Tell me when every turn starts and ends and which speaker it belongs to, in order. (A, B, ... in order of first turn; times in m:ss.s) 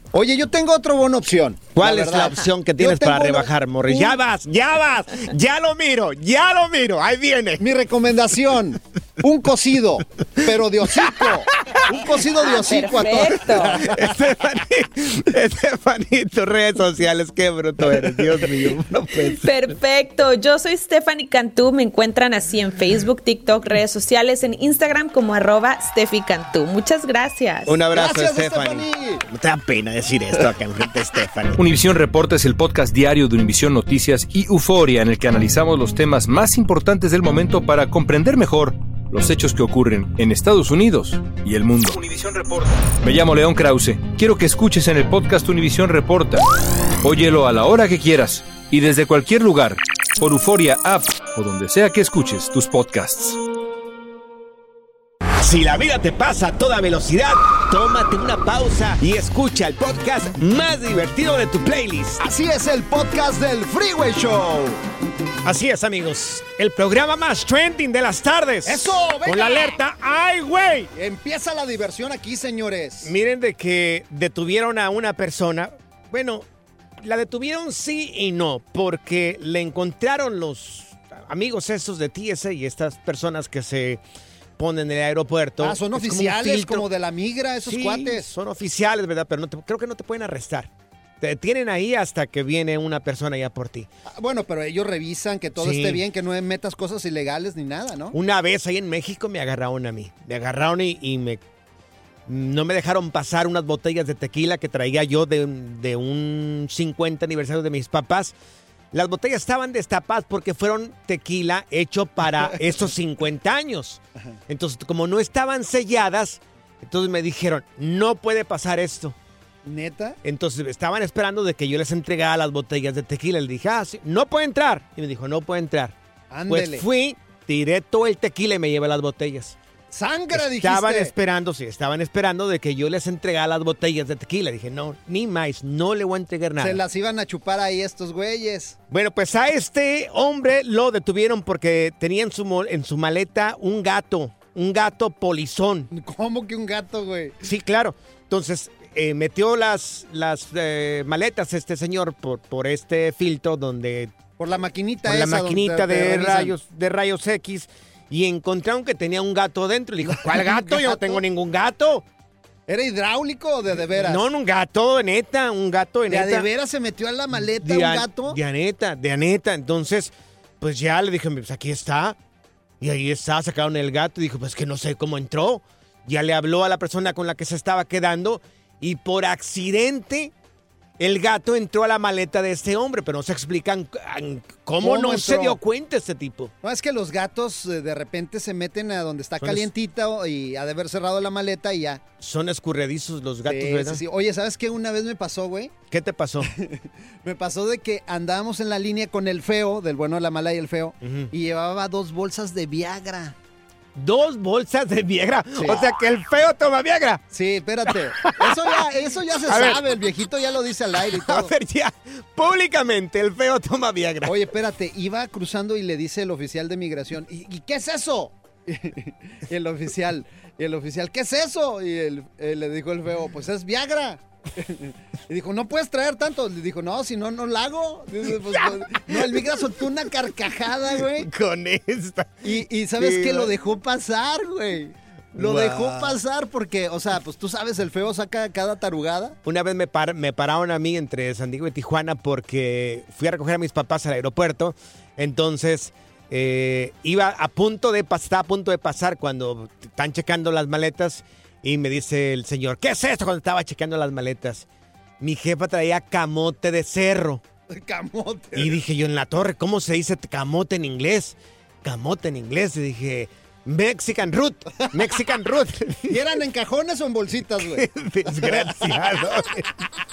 0:00.1-0:04.2 A
0:01.8-0:07.6 B
0:07.6-0:14.1 A
0:11.0-0:11.8 B
0:12.4-0:13.8 C
0:13.6-0:19.5 B
0:19.4-0:27.8 C
0:27.7-0:31.6 B
0:27.9-0:29.2 A
0:31.6-0:46.4 D
0:47.0-0:53.4 D
0:55.4-1:02.2 B
1:02.2-1:04.8 A
1:05.4-1:10.9 B
1:08.6-1:09.8 A
1:11.0-1:13.1 A
1:13.0-1:16.5 B
1:17.0-1:24.0 B
1:24.6-1:26.9 B
1:25.6-1:28.3 A
1:27.6-1:30.7 B
1:31.2-1:33.9 B
1:34.2-1:38.2 A
1:35.6-1:36.0 B
1:38.1-1:41.4 B
1:42.3-1:48.4 B
1:48.9-1:59.2 B
1:59.6-2:00.2 A
2:00.2-2:06.0 B
2:06.3-2:06.8 A
2:06.5-2:09.6 B
2:09.9-2:11.1 A
2:10.3-2:16.8 B
2:16.6-2:18.8 A
2:18.9-2:25.9 B
2:25.9-2:27.4 A
2:27.4-2:34.1 B
2:34.4-2:36.5 A
2:35.0-2:42.0 B
2:40.1-2:41.2 A
2:42.7-2:44.2 A
2:43.9-2:46.5 B
2:46.1-2:48.4 A
2:47.6-2:52.2 B
2:52.8-3:00.3 B
3:01.0-3:06.5 B
3:04.8-3:05.6 A
3:06.6-3:12.0 A
3:09.4-3:09.7 B
3:12.2-3:14.0 B
3:13.5-3:15.7 A
3:15.9-3:16.5 B
3:16.4-3:23.4 A
3:21.0-3:21.3 B
3:24.0-3:27.2 B
3:27.3-3:31.5 A
3:27.9-3:28.8 B
3:29.5-3:29.8 B
3:31.0-3:34.4 B
3:34.2-3:51.3 A
3:48.5-3:49.4 B
3:51.1-3:52.4 B
3:52.4-3:59.4 A
3:53.0-3:53.5 B
3:55.3-3:56.2 B
3:59.4-4:14.7 B
4:15.2-4:17.4 B
4:17.7-4:18.8 A
4:18.6-4:26.2 B
4:26.1-4:28.7 A
4:27.6-4:29.7 B